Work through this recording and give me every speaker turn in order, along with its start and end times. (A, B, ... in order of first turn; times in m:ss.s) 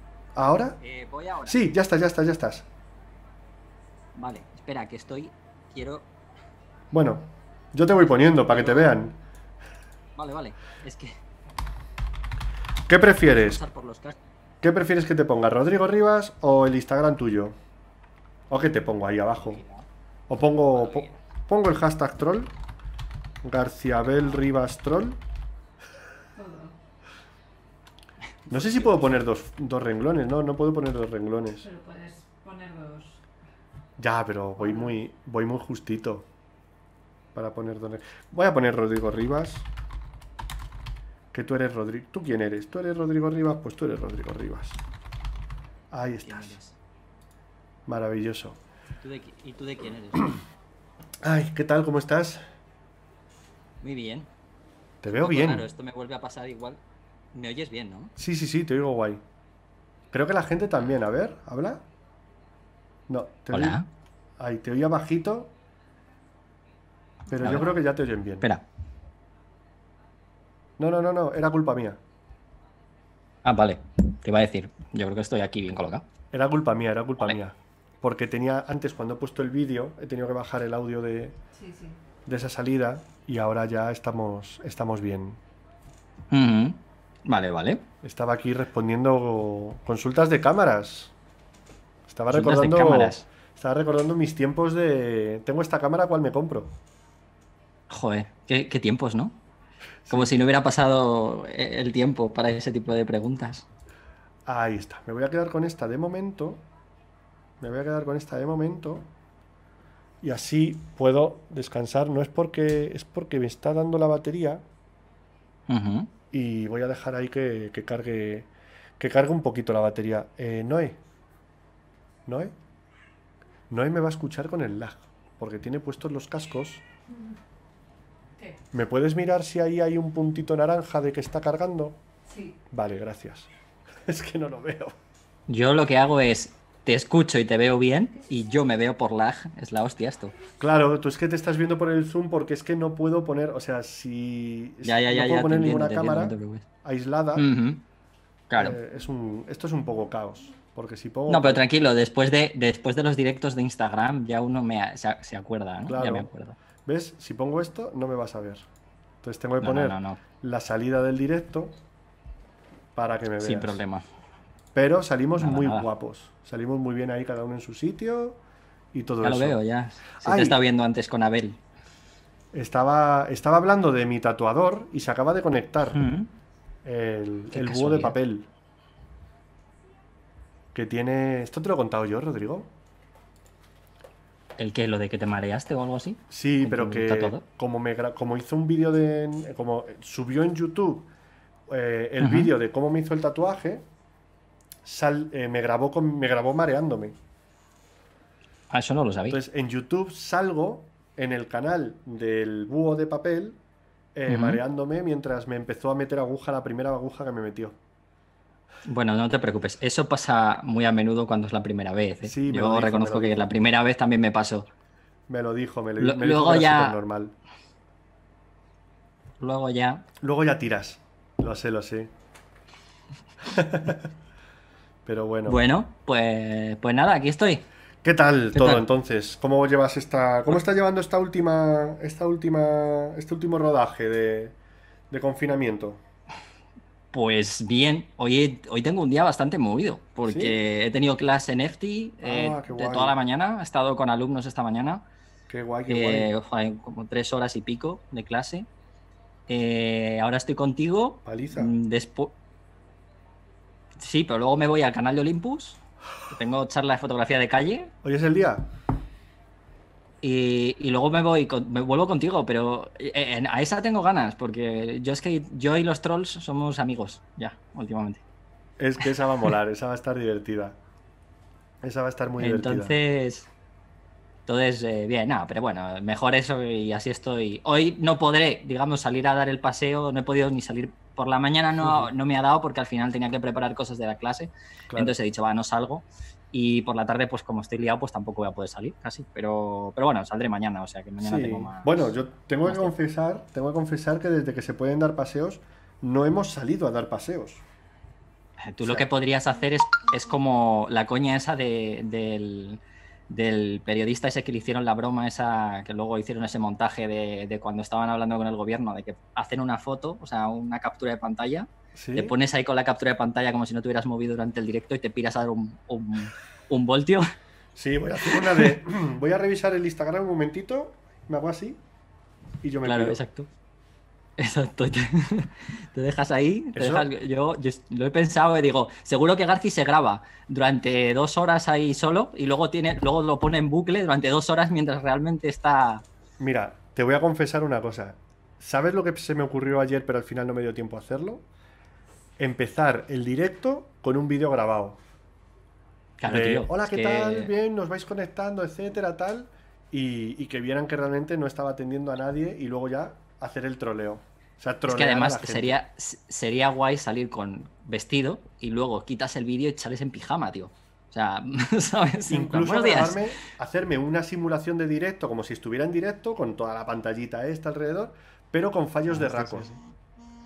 0:00.4-0:00.8 A
0:00.8-0:01.6 B
0:01.5-0:02.7 A
0:04.2-0:06.1 B
0:06.9-0:09.2 A
0:08.6-0:09.0 B
0:10.2-0:11.2 B
0:12.9-0:13.6 A
0:13.2-0:14.2 B
0:14.6-0:17.6 A
0:18.5-0:19.6 A
0:19.4-0:19.8 B
0:20.3-0:22.5 A
0:20.7-0:21.2 B
0:23.4-0:25.2 A
0:26.4-0:26.8 C
0:28.5-0:31.7 A
0:28.5-0:29.0 B
0:31.6-0:33.2 C
0:34.0-0:36.3 A
0:37.3-0:39.7 A
0:41.3-0:44.8 A
0:45.9-0:46.6 A
0:46.2-0:46.8 B
0:47.9-0:48.6 A
0:49.0-0:50.4 B
0:51.2-0:52.4 A
0:53.8-0:54.3 B
0:55.0-0:55.7 A
0:55.1-0:56.8 B
0:57.3-0:58.1 B
0:58.2-0:59.2 A
1:00.1-1:01.8 A
1:03.1-1:03.8 A
1:03.5-1:03.9 B
1:04.4-1:05.5 A
1:07.3-1:08.5 A
1:07.4-1:07.7 B
1:10.8-1:12.0 A
1:13.4-1:16.1 B
1:16.3-1:21.4 A
1:21.5-1:22.0 C
1:22.3-1:25.4 A
1:26.3-1:27.8 B
1:28.0-1:31.1 A
1:32.1-1:36.7 A
1:32.3-1:33.3 B
1:37.9-1:39.4 B
1:40.1-1:40.3 A
1:40.1-1:43.7 B
1:44.5-1:46.6 A
1:47.6-1:49.1 A
1:50.2-1:54.6 A
1:55.7-1:56.1 B
1:56.3-1:58.5 A
1:59.0-2:01.0 A
2:02.3-2:02.5 A
2:03.7-2:06.8 A
2:08.7-2:12.0 A
2:12.3-2:12.6 C
2:12.7-2:13.5 A
2:14.1-2:15.0 A
2:15.5-2:20.3 B
2:20.6-2:27.5 A
2:24.8-2:26.6 B
2:27.4-2:27.8 B
2:28.5-2:28.8 B
2:28.6-2:31.6 A
2:31.3-2:36.6 B
2:35.9-2:36.3 A
2:36.8-2:38.6 A
2:39.2-2:41.8 A
2:39.6-2:40.2 B
2:43.0-2:43.8 A
2:43.4-2:44.0 B
2:44.7-2:48.4 A
2:45.4-2:45.9 B
2:48.9-2:49.6 A
2:49.2-2:51.6 B
2:50.2-2:50.6 A
2:52.5-2:56.0 A
2:55.9-2:56.3 B
2:56.8-2:58.5 A
2:57.5-2:58.2 B
3:00.7-3:02.7 A
3:04.6-3:07.4 B
3:06.3-3:11.1 A
3:11.7-3:13.8 A
3:12.2-3:12.5 B
3:14.8-3:17.2 A
3:18.7-3:19.4 B
3:19.3-3:23.6 A
3:24.2-3:27.8 A
3:24.3-3:24.6 B
3:28.8-3:34.7 B
3:32.2-3:33.4 A
3:35.3-3:37.4 A
3:36.0-3:37.0 B
3:39.4-3:40.0 B
3:40.2-3:42.1 A
3:43.4-3:44.1 A
3:45.0-3:45.6 A
3:45.4-3:47.6 B
3:48.0-3:54.6 A
3:48.6-3:48.8 B
3:55.1-3:56.0 A
3:57.1-4:05.0 B
4:00.2-4:00.6 A
4:02.2-4:03.2 A
4:05.5-4:06.3 A
4:05.9-4:08.7 B
4:09.5-4:12.4 B
4:11.2-4:11.7 A
4:14.0-4:17.9 B
4:18.0-4:18.7 A
4:20.2-4:28.2 B
4:28.8-4:30.8 A
4:31.8-4:33.0 A
4:32.4-4:33.5 B
4:34.5-4:52.9 B
4:41.8-4:42.1 A
4:44.9-4:45.2 A
4:51.2-4:57.6 A
4:58.6-5:17.3 B
5:11.9-5:12.3 A
5:17.8-5:21.8 A
5:22.6-5:23.2 A
5:22.8-5:23.5 B
5:24.4-5:36.0 B
5:26.8-5:27.1 A
5:36.4-5:41.5 A
5:42.4-5:45.0 A
5:46.2-5:47.5 B
5:46.2-5:55.8 A
5:54.9-6:03.3 B
6:02.3-6:09.8 A
6:09.1-6:09.8 B